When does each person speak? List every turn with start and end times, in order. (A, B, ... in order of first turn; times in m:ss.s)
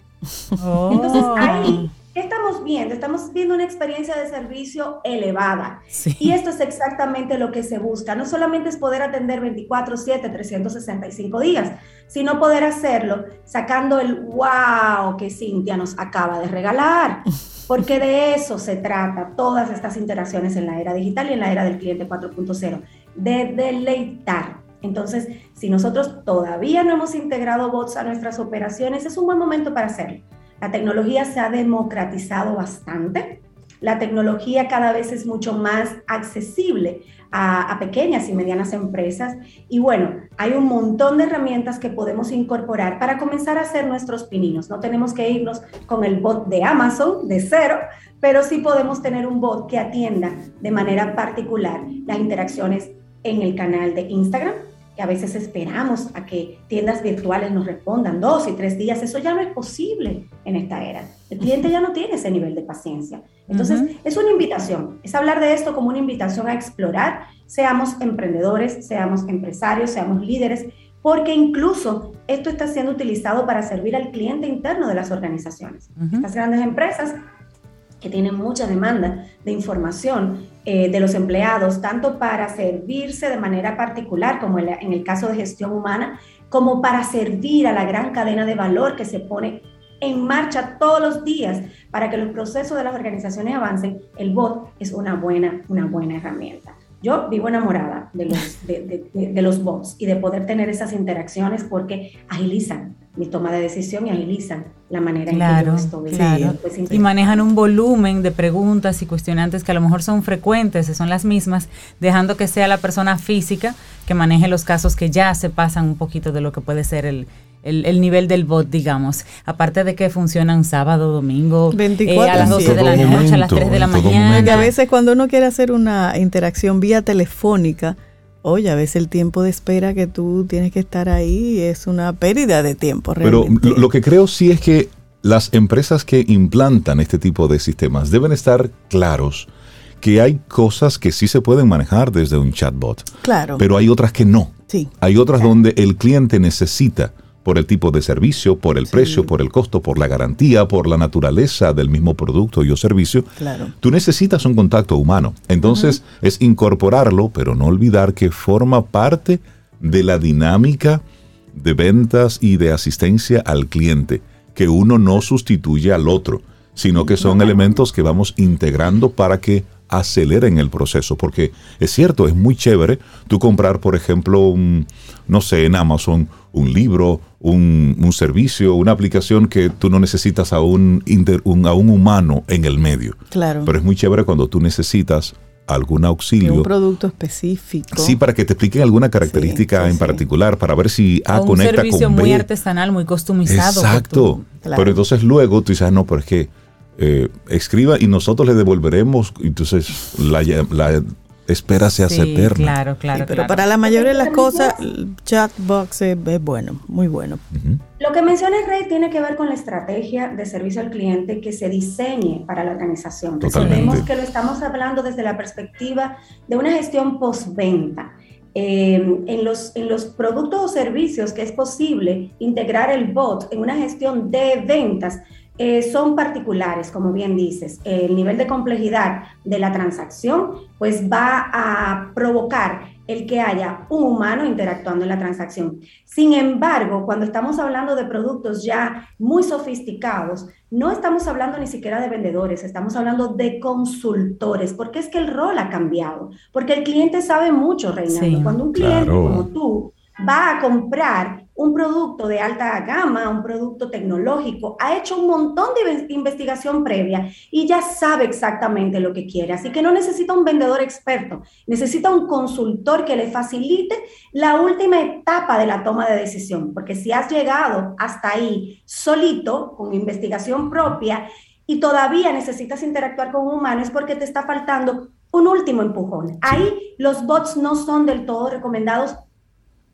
0:00.6-0:01.8 A
0:00.9-1:17.2 B
0:01.0-0:01.7 C
0:05.9-0:06.3 A
1:03.5-1:03.9 A
1:16.0-1:16.2 A
1:18.0-1:47.3 B
1:45.3-2:04.7 A
1:46.1-1:46.6 C
2:01.7-2:03.3 C
2:02.3-2:04.7 D
2:04.3-2:13.9 C
2:13.2-2:19.5 D
2:20.0-2:41.0 D
2:23.2-2:23.6 C
2:28.9-2:29.3 C
2:33.4-2:33.7 C
2:41.5-3:06.7 D
3:03.3-3:03.7 C
3:06.4-3:08.2 C
3:07.9-3:12.4 D
3:09.2-3:10.2 C
3:11.3-3:14.4 A
3:13.5-3:22.8 D
3:14.5-3:15.0 C
3:22.0-3:23.7 A
3:23.1-3:27.4 C
3:23.8-3:24.8 B
3:27.5-3:27.8 D
3:28.0-4:39.2 B
3:33.4-3:34.1 D
3:33.6-3:34.0 A
4:08.1-4:08.6 A
4:08.7-4:09.4 D